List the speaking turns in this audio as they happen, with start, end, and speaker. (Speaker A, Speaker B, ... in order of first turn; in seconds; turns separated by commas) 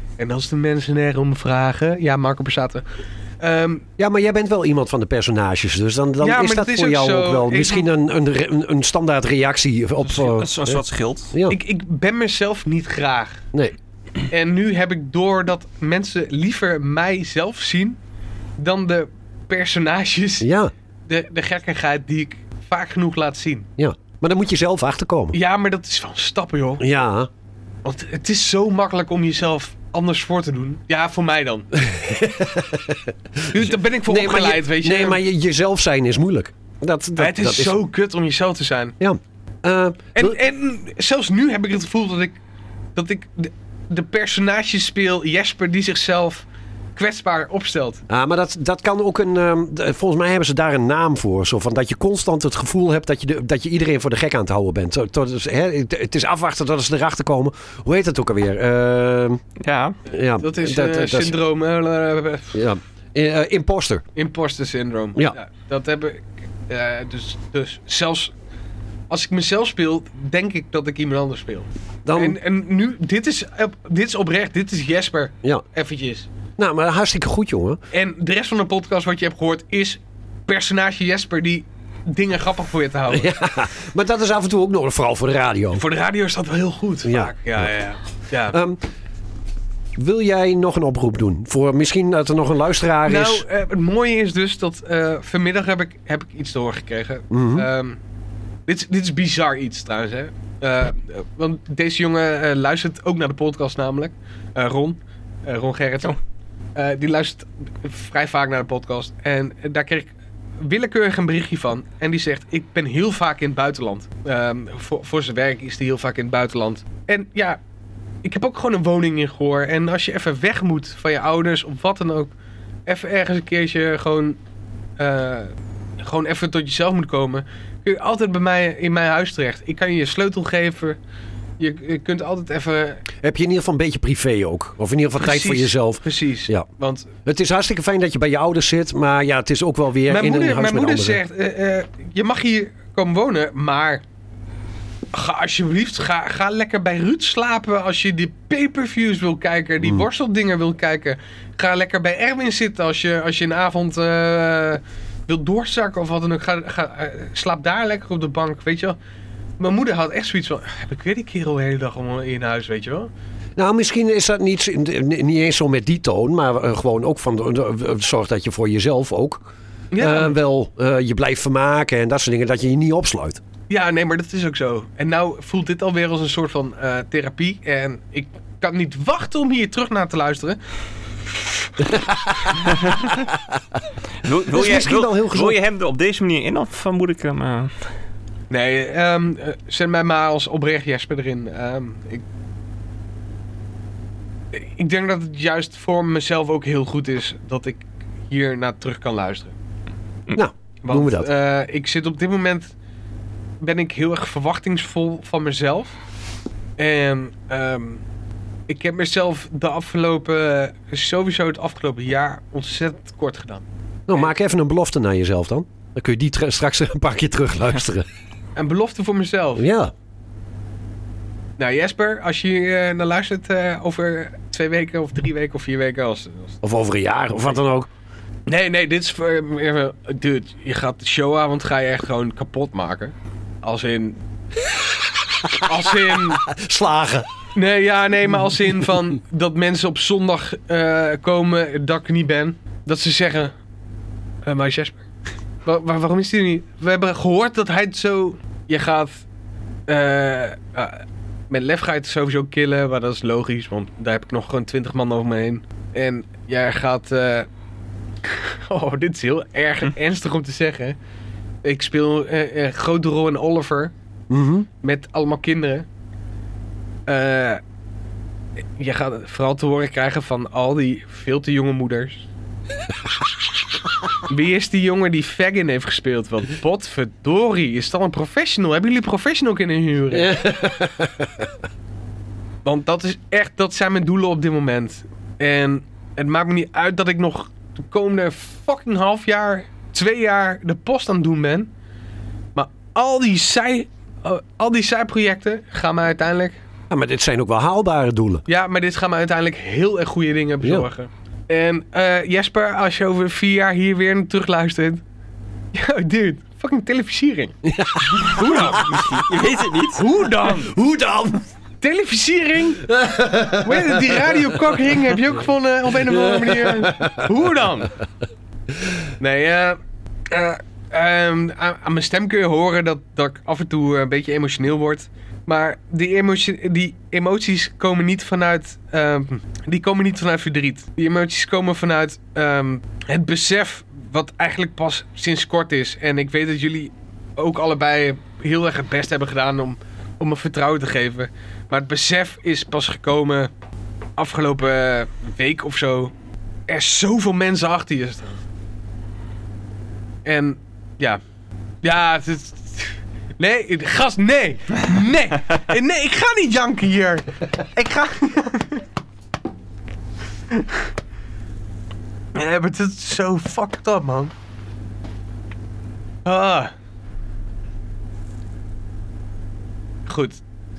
Speaker A: 0.2-2.8, Speaker A: 3.4-3.9, Speaker B: 4.0-10.8, Speaker A: 6.2-7.9, Speaker C: 10.0-11.3, Speaker B: 11.3-11.6, Speaker A: 11.5-13.4, Speaker A: 14.3-18.0, Speaker A: 18.6-20.5, Speaker B: 20.4-20.7, Speaker A: 21.1-23.7, Speaker B: 23.8-25.4, Speaker A: 25.3-26.8, Speaker B: 26.8-27.3, Speaker A: 27.9-31.7, Speaker B: 31.8-37.8, Speaker A: 33.5-35.2, Speaker A: 37.2-39.0, Speaker B: 39.0-40.4, Speaker A: 40.1-42.4, Speaker A: 43.0-48.0, Speaker B: 48.1-59.4, Speaker C: 59.6-60.0, Speaker B: 60.1-61.4, Speaker A: 60.4-62.6, Speaker B: 62.5-64.1, Speaker A: 64.2-68.3, Speaker A: 69.1-76.3, Speaker B: 72.0-72.4, Speaker B: 76.6-77.8, Speaker A: 77.9-83.4, Speaker B: 83.1-85.8, Speaker A: 85.7-88.6, Speaker B: 87.0-87.7, Speaker B: 88.5-88.8, Speaker B: 90.0-93.5, Speaker A: 93.1-98.0, Speaker B: 97.3-97.7, Speaker A: 98.7-106.2, Speaker A: 106.8-117.6, Speaker A: 118.2-122.3, Speaker A: 122.9-124.4, Speaker A: 125.0-131.0, Speaker A: 131.6-133.0, Speaker B: 133.2-136.7, Speaker A: 135.2-137.1, Speaker B: 137.2-141.2, Speaker A: 140.1-144.0, Speaker A: 145.1-159.0, Speaker B: 149.8-150.1, Speaker A: 159.6-163.1, Speaker B: 163.6-169.5, Speaker A: 169.9-170.4, Speaker B: 170.0-173.4, Speaker A: 173.7-180.6, Speaker B: 181.9-182.5, Speaker C: 182.7-183.1, Speaker C: 184.2-187.7, Speaker B: 184.5-185.6, Speaker A: 188.5-192.2, Speaker A: 194.5-199.6, Speaker B: 200.3-201.3, Speaker A: 200.8-202.7, Speaker A: 203.6-205.9, Speaker A: 206.8-208.0, Speaker A: 208.7-213.7, Speaker B: 214.1-218.1, Speaker A: 218.6-219.7, Speaker B: 219.6-219.9, Speaker A: 221.6-226.6, Speaker B: 226.6-227.9, Speaker A: 228.5-234.2, Speaker B: 235.5-237.3, Speaker A: 235.6-236.4, Speaker A: 237.6-243.5, Speaker A: 244.4-245.0, Speaker A: 245.7-249.2, Speaker A: 249.9-257.5, Speaker A: 258.2-261.0, Speaker A: 261.6-263.9, Speaker B: 264.3-264.7, Speaker A: 264.8-265.9, Speaker A: 267.1-267.6, Speaker A: 268.8-272.2, Speaker A: 274.3-280.4, Speaker B: 280.1-281.5, Speaker A: 282.6-291.7, Speaker A: 292.6-296.6, Speaker B: 296.9-298.4, Speaker A: 298.5-305.0, Speaker A: 305.7-307.5, Speaker B: 307.6-309.4, Speaker A: 308.2-308.9, Speaker C: 308.3-310.0, Speaker A: 309.9-310.7, Speaker B: 310.4-311.4, Speaker A: 311.8-312.9, Speaker B: 312.8-314.5, Speaker A: 313.6-317.9, Speaker B: 316.0-317.3, Speaker A: 319.2-319.8, Speaker A: 320.3-343.5, Speaker A: 344.2-346.1, Speaker A: 346.7-348.4, Speaker A: 350.2-351.2, Speaker A: 351.8-358.8, Speaker A: 362.4-364.3, Speaker A: 366.2-366.7, Speaker A: 370.1-370.4